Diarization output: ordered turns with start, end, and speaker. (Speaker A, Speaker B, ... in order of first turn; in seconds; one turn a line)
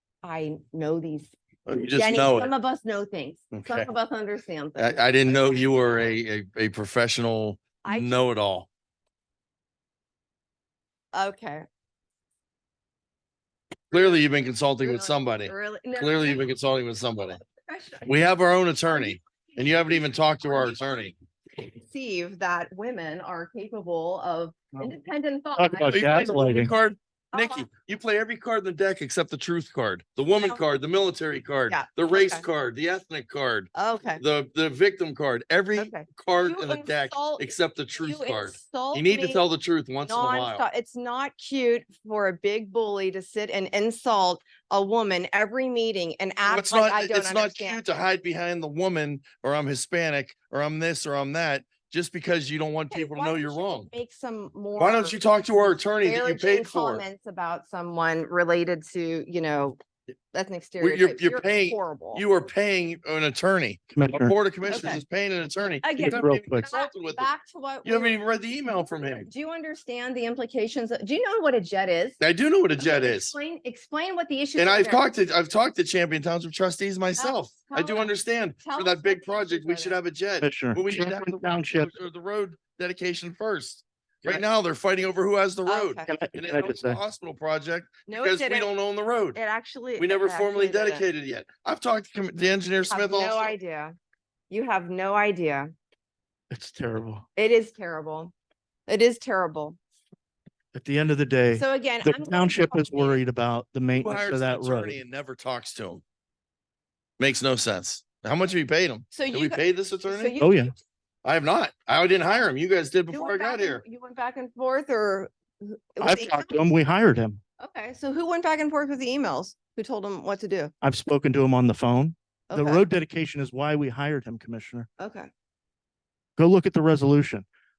Speaker A: 0.2-1.3
Speaker B: 1.7-2.5
Speaker A: 1.9-6.0
Speaker B: 3.5-3.9
Speaker B: 4.8-8.7
Speaker A: 7.8-8.2
Speaker A: 11.1-11.7
Speaker A: 13.9-14.2
Speaker B: 13.9-17.4
Speaker A: 14.8-16.5
Speaker A: 17.2-18.2
Speaker B: 18.0-21.1
Speaker A: 18.9-21.1
Speaker A: 21.8-26.1
Speaker C: 25.6-26.7
Speaker B: 25.9-40.6
Speaker A: 27.3-27.7
Speaker A: 30.3-30.6
Speaker A: 31.7-32.5
Speaker A: 33.7-34.2
Speaker A: 35.7-39.4
Speaker A: 40.0-47.8
Speaker B: 46.5-53.9
Speaker A: 52.9-55.2
Speaker B: 54.8-57.0
Speaker A: 56.0-59.8
Speaker A: 60.3-62.2
Speaker B: 60.8-67.3
Speaker C: 63.9-64.3
Speaker A: 64.7-65.0
Speaker A: 65.8-68.2
Speaker C: 66.0-66.7
Speaker B: 67.8-69.3
Speaker A: 69.2-72.2
Speaker B: 72.2-73.3
Speaker A: 72.8-75.0
Speaker B: 74.6-89.4
Speaker A: 77.2-80.0
Speaker C: 80.4-81.9
Speaker A: 85.7-86.1
Speaker C: 86.1-87.0
Speaker A: 88.1-88.7
Speaker A: 89.3-91.0
Speaker B: 90.0-93.5
Speaker A: 92.9-93.9
Speaker A: 94.5-95.7
Speaker C: 96.5-97.2
Speaker A: 97.4-98.3
Speaker A: 98.9-99.8
Speaker C: 100.8-105.0
Speaker A: 101.5-103.2
Speaker B: 104.0-106.0
Speaker B: 107.2-110.3
Speaker A: 109.1-110.8
Speaker C: 110.4-110.7
Speaker B: 111.2-113.8
Speaker A: 113.1-116.6
Speaker C: 116.0-117.4
Speaker A: 117.6-120.7
Speaker C: 120.8-124.9
Speaker A: 122.5-122.8
Speaker A: 125.0-125.3
Speaker C: 126.4-127.5